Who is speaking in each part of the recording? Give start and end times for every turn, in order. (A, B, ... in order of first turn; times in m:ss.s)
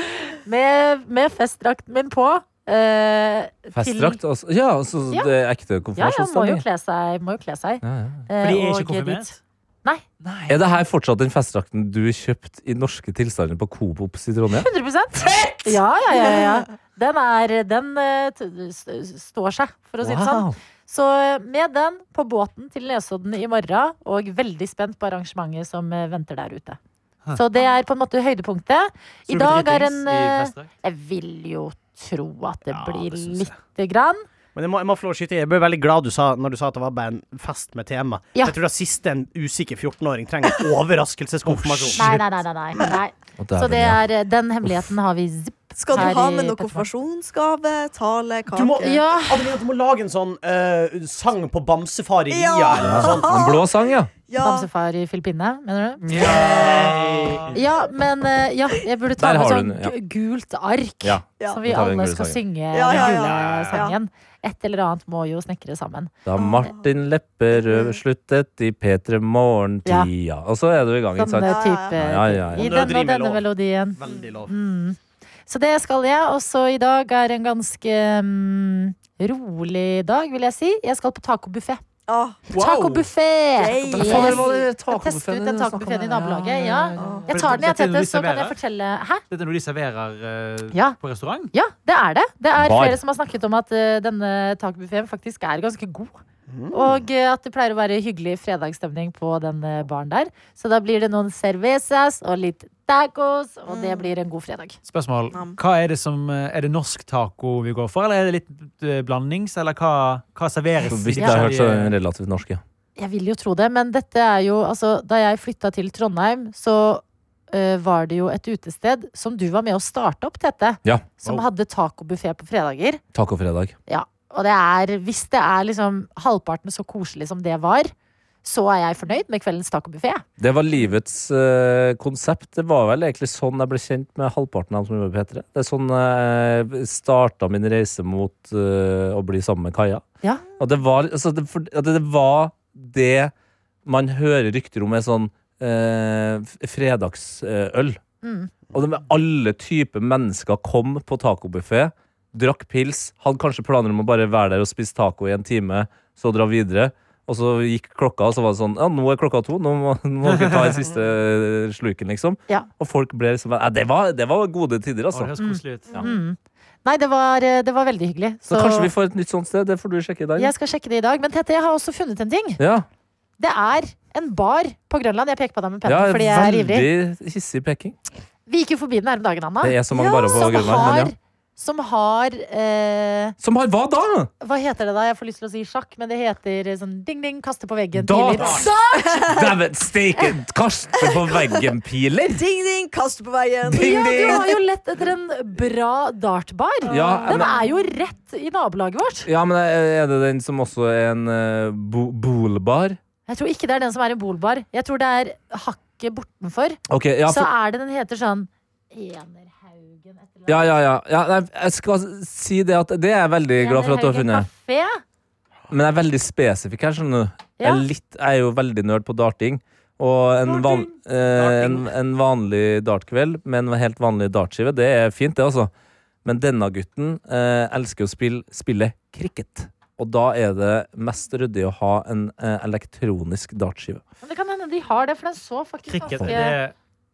0:00.2-0:04.2 A
0:03.7-0:06.6 B
0:06.0-0:10.0 A
0:07.8-0:08.2 B
0:08.4-0:09.3 C
0:10.2-0:10.6 C
0:10.5-0:14.7 B
0:14.5-0:26.8 A
0:15.3-0:15.7 B
0:20.0-0:20.6 B
0:27.3-0:34.2 A
0:29.3-0:30.7 C
0:32.7-0:33.6 D
0:34.5-0:42.2 D
0:41.5-0:42.0 C
0:41.9-0:46.9 A
0:43.4-0:44.0 B
0:45.8-0:49.0 E
0:48.5-0:53.5 D
0:48.8-0:49.5 A
0:52.3-0:53.6 E
0:52.8-0:54.1 B
0:54.3-0:54.7 E
0:54.4-0:56.4 A
0:56.0-0:57.5 C
0:56.4-0:57.5 D
0:57.5-1:06.1 A
0:59.2-0:59.9 B
1:01.0-1:02.4 B
1:02.7-1:04.0 E
1:02.9-1:03.7 D
1:06.2-1:12.8 B
1:06.4-1:06.9 E
1:07.5-1:08.0 E
1:11.1-1:21.8 A
1:11.4-1:12.0 E
1:12.5-1:14.5 D
1:22.1-1:22.4 E
1:22.5-1:29.2 A
1:23.6-1:24.6 E
1:23.8-1:27.4 B
1:27.0-1:27.3 E
1:27.3-1:28.6 C
1:29.3-1:31.5 C
1:31.5-1:36.2 A
1:32.6-1:33.0 B
1:36.5-1:37.0 D
1:36.7-1:44.8 A
1:43.7-1:44.1 E
1:44.9-1:51.9 C
1:45.3-1:45.6 E
1:50.8-1:52.6 B
1:51.2-1:51.5 A
1:53.0-2:03.0 A
2:00.8-2:01.4 B
2:03.1-2:03.7 B
2:03.9-2:07.9 A
2:08.4-2:10.2 A
2:10.4-2:20.1 B
2:20.6-2:23.3 B
2:23.8-2:28.0 B
2:28.2-2:28.5 A
2:28.7-2:45.3 B
2:40.2-2:40.8 C
2:45.1-2:45.9 C
2:45.4-2:48.9 A
2:48.5-2:50.5 B
2:50.4-2:52.6 A
2:52.6-2:52.9 B
2:53.4-2:56.9 A
2:55.8-2:58.0 B
2:58.5-3:03.4 A
2:59.6-3:01.1 B
2:59.9-3:00.8 E
3:03.4-3:04.3 B
3:04.4-3:08.6 A
3:07.9-3:12.4 B
3:08.9-3:09.5 E
3:11.0-3:11.4 E
3:12.3-3:14.5 E
3:13.6-3:14.5 B
3:13.7-3:19.3 A
3:16.9-3:17.5 B
3:17.0-3:17.7 E
3:19.2-3:23.0 B
3:23.3-3:30.8 A
3:26.9-3:27.5 B
3:30.5-3:34.5 B
3:33.6-3:35.0 A
3:35.7-3:45.7 B
3:37.6-3:37.8 A
3:40.4-3:41.9 D
3:46.2-3:54.0 B
3:54.2-3:56.6 A
3:55.9-3:56.7 C